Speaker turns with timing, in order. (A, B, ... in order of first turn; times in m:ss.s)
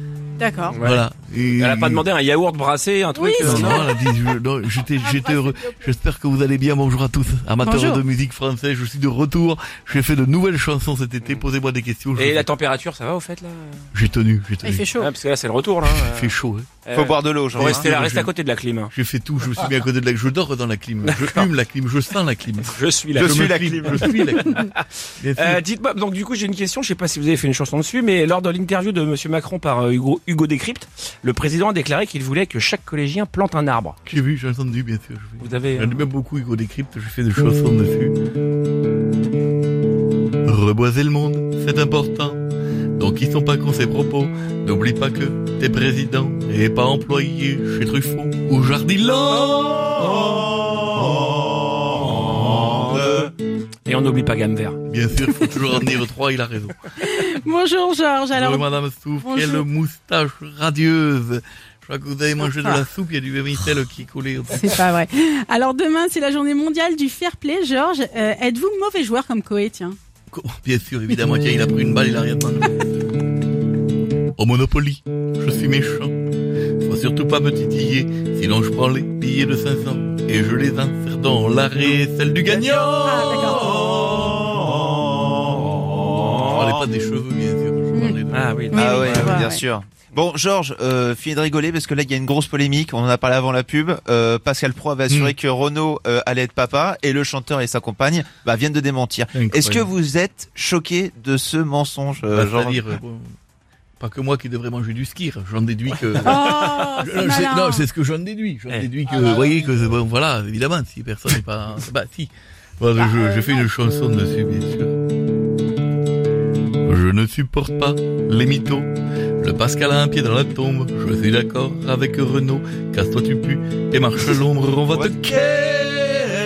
0:00.4-0:00.8 A
0:00.7-0:01.0 B
0:00.8-0:02.1 C
0:01.6-0:03.9 B
0:03.2-0:04.0 A
0:03.4-0:12.5 C
0:04.9-0:05.9 A
0:07.6-0:08.0 A
0:12.2-0:13.9 B
0:13.9-0:14.9 C
0:14.6-0:15.1 A
0:15.0-0:18.9 B
0:15.8-0:16.7 C
0:16.9-0:17.8 D
0:17.6-0:18.3 C
0:18.9-0:25.6 C
0:21.0-0:21.5 B
0:22.7-0:24.8 B
0:23.2-0:24.1 D
0:25.3-0:34.0 B
0:34.1-0:38.2 C
0:35.4-0:36.0 B
0:40.4-0:42.4 C
0:43.0-0:49.8 C
0:52.5-0:53.3 B
0:53.8-0:54.8 B
0:54.9-0:56.8 C
0:57.0-0:58.7 A
0:58.3-1:04.7 C
0:59.2-0:59.7 A
1:02.4-1:02.9 A
1:04.5-1:10.0 A
1:10.3-1:12.7 C
1:14.4-1:16.2 C
1:16.8-1:23.8 C
1:23.0-1:23.8 A
1:26.5-1:28.6 C
1:28.3-1:29.4 B
1:28.7-1:29.6 A
1:28.7-1:42.8 D
1:35.1-1:35.4 C
1:39.3-1:39.9 C
1:42.3-1:43.3 C
1:44.0-1:55.0 C
1:46.2-1:46.9 B
1:46.2-1:47.8 A
1:53.1-1:53.5 A
1:56.8-2:05.5 C
2:05.8-2:06.1 D